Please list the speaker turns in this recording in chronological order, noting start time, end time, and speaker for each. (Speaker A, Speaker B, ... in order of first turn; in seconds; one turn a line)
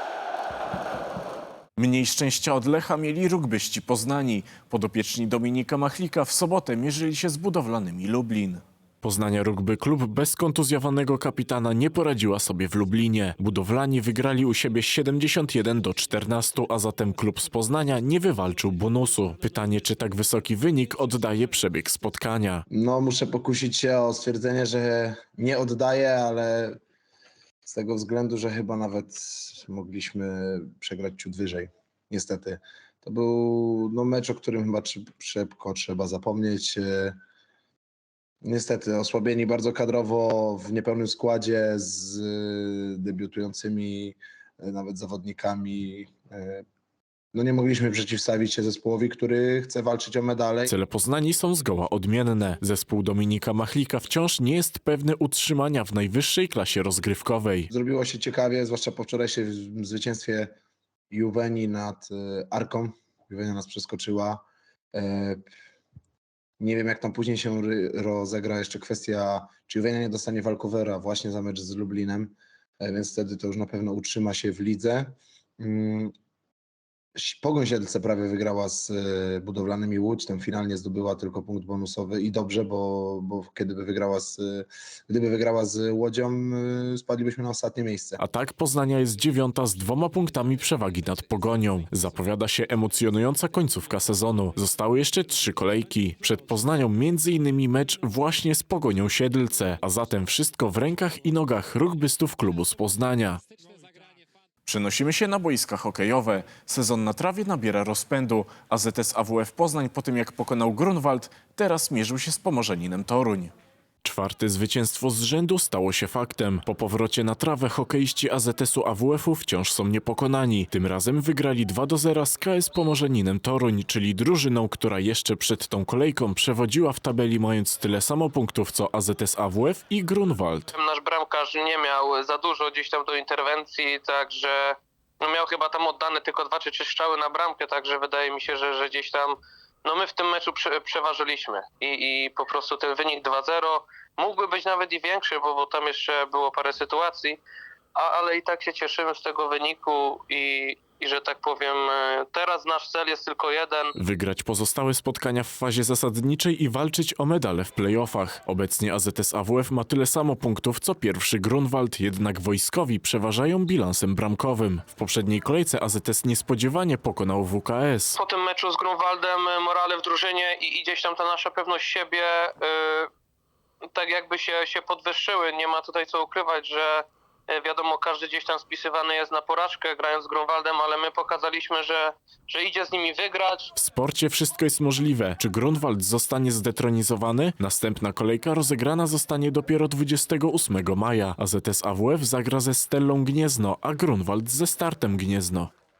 Speaker A: 1.8-22.6
Speaker B: 22.7-26.8
Speaker B: 27.6-37.2
Speaker B: 38.4-46.6
Speaker B: 47.3-50.7
Speaker A: 50.7-57.7
Speaker B: 57.7-60.5
Speaker B: 61.1-64.4
Speaker B: 64.9-65.4
Speaker B: 66.6-76.1
Speaker B: 77.2-88.2
Speaker A: 88.2-103.4
Speaker A: 104.7-113.5
Speaker A: 114.0-130.7
Speaker C: 130.7-147.4
Speaker C: 147.9-153.9
Speaker A: 154.0-168.2
Speaker C: 168.2-173.1
Speaker C: 173.9-183.7
Speaker A: 183.8-195.7